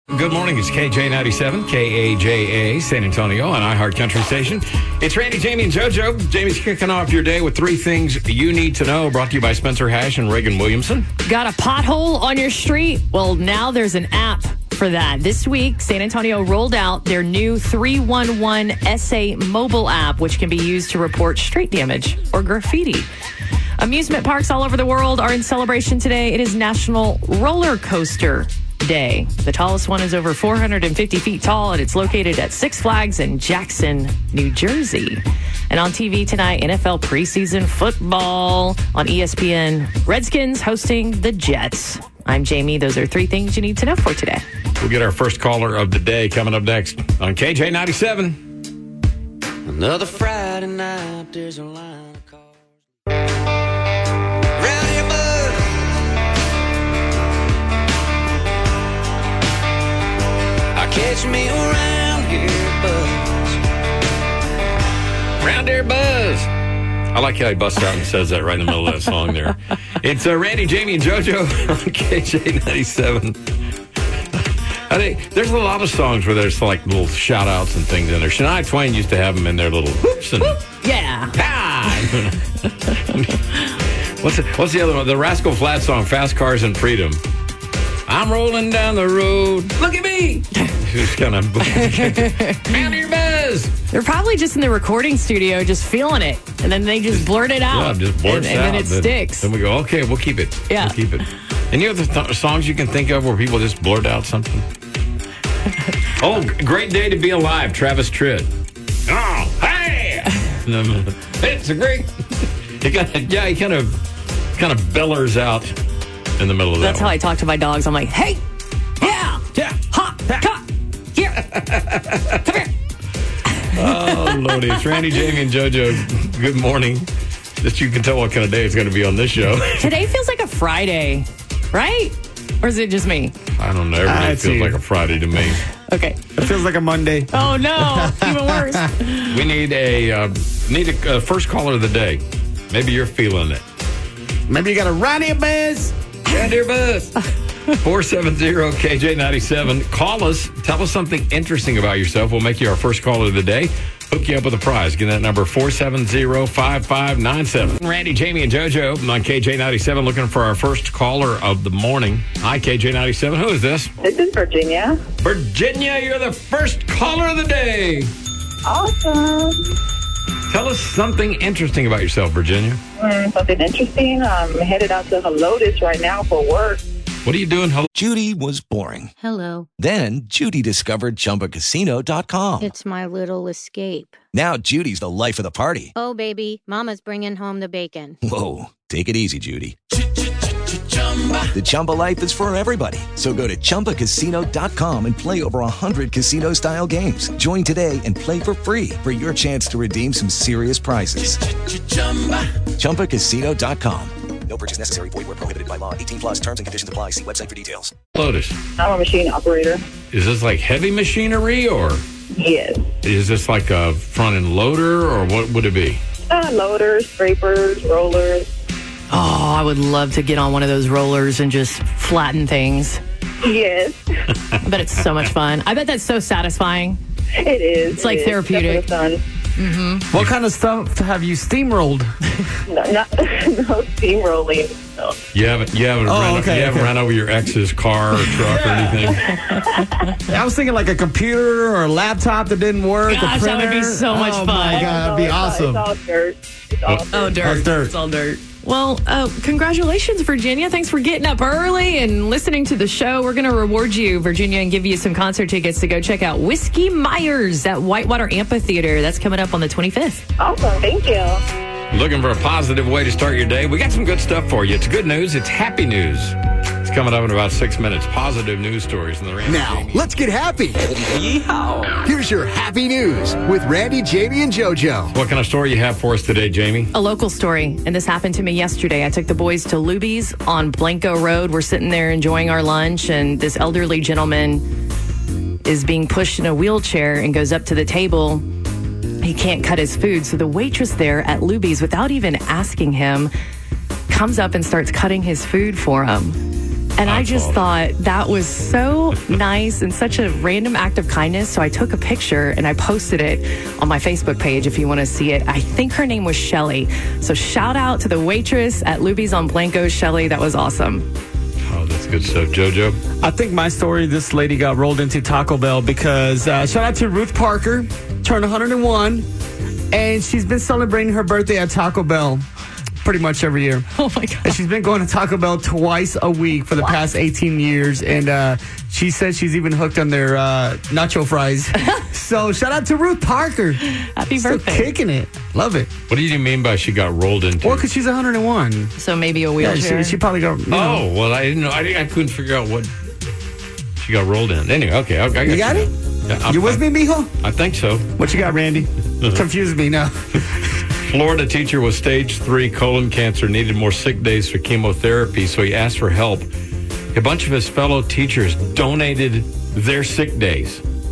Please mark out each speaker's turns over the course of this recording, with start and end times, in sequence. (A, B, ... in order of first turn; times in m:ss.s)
0:00.1-0:11.1 A
0:11.2-0:23.1 B
0:23.8-0:44.4 B
0:44.8-0:48.4 A
0:49.7-0:52.4 C
0:54.6-0:55.6 C
1:00.8-1:03.3 C
1:05.4-1:06.5 A
1:07.1-1:13.4 A
1:14.3-1:20.6 A
1:20.4-1:21.3 B
1:21.3-1:27.2 A
1:28.1-1:33.7 A
1:31.8-1:32.7 B
1:33.9-1:39.5 B
1:37.1-1:44.6 A
1:40.7-1:40.9 B
1:46.2-1:48.5 A
1:49.1-1:52.1 A
1:52.8-1:54.0 A
1:54.5-1:55.7 A
1:56.4-1:57.1 A
1:56.8-1:58.4 B
1:59.0-2:01.5 B
2:01.6-2:02.4 A
2:03.7-2:07.1 A
2:07.6-2:09.9 A
2:09.8-2:13.3 B
2:13.6-2:15.6 A
2:14.0-2:14.8 D
2:15.8-2:16.5 B
2:16.4-2:18.8 D
2:17.3-2:19.4 B
2:19.3-2:23.6 A
2:24.5-2:25.9 D
2:26.2-2:27.2 A
2:27.7-2:43.9 A
2:44.0-2:45.0 E
2:45.2-2:48.1 A
2:48.6-2:49.7 E
2:50.5-2:52.8 A
2:53.0-2:56.8 E
2:57.2-2:57.9 A
2:57.9-2:59.1 F
2:59.2-2:59.6 G
2:59.8-3:02.7 F
3:02.6-3:04.1 G
3:04.3-3:05.9 F
3:06.0-3:08.2 G
3:08.2-3:09.8 F
3:11.5-3:21.4 F
3:22.8-3:27.9 F
3:28.1-3:28.6 A
3:28.8-3:29.8 E
3:30.1-3:32.0 A
3:32.3-3:32.8 E
3:33.0-3:36.0 A
3:36.3-3:38.5 E
3:39.1-3:43.0 B
3:43.4-3:44.0 E
3:44.6-3:47.0 B
3:47.4-3:49.2 E
3:47.9-3:48.9 B
3:49.6-3:50.1 B
3:50.1-3:52.1 D
3:52.7-3:55.2 E
3:55.3-3:59.3 A
3:56.0-3:56.9 D
3:59.5-4:00.0 E
4:00.3-4:05.8 D
4:03.1-4:04.9 B
4:04.7-4:07.4 E
4:07.1-4:20.2 B
4:07.4-4:07.9 D
4:20.4-4:21.4 E
4:21.9-4:30.0 A
4:29.4-4:30.8 H
4:31.2-4:31.6 A
4:32.0-4:35.1 H
4:35.1-4:36.9 A
4:36.9-4:44.6 B
4:45.6-4:48.4 B
4:49.2-4:53.3 B
4:54.1-4:56.4 B
4:57.0-5:11.1 B
4:57.0-4:57.6 A
5:11.7-5:13.0 A
5:13.2-5:19.2 D
5:19.9-5:22.4 D
5:23.0-5:23.8 D
5:23.9-5:24.6 B
5:24.4-5:33.8 D
5:34.2-5:34.9 B
5:34.4-5:35.9 D
5:36.1-5:37.8 A
5:37.6-5:38.9 D
5:39.0-5:40.2 B
5:39.6-5:41.0 D
5:40.7-5:42.9 A
5:44.0-5:46.8 A
5:45.4-5:45.9 D
5:46.4-5:47.3 D
5:47.4-5:48.1 A
5:48.2-5:50.1 D
5:50.9-5:56.5 A
5:57.1-6:00.8 A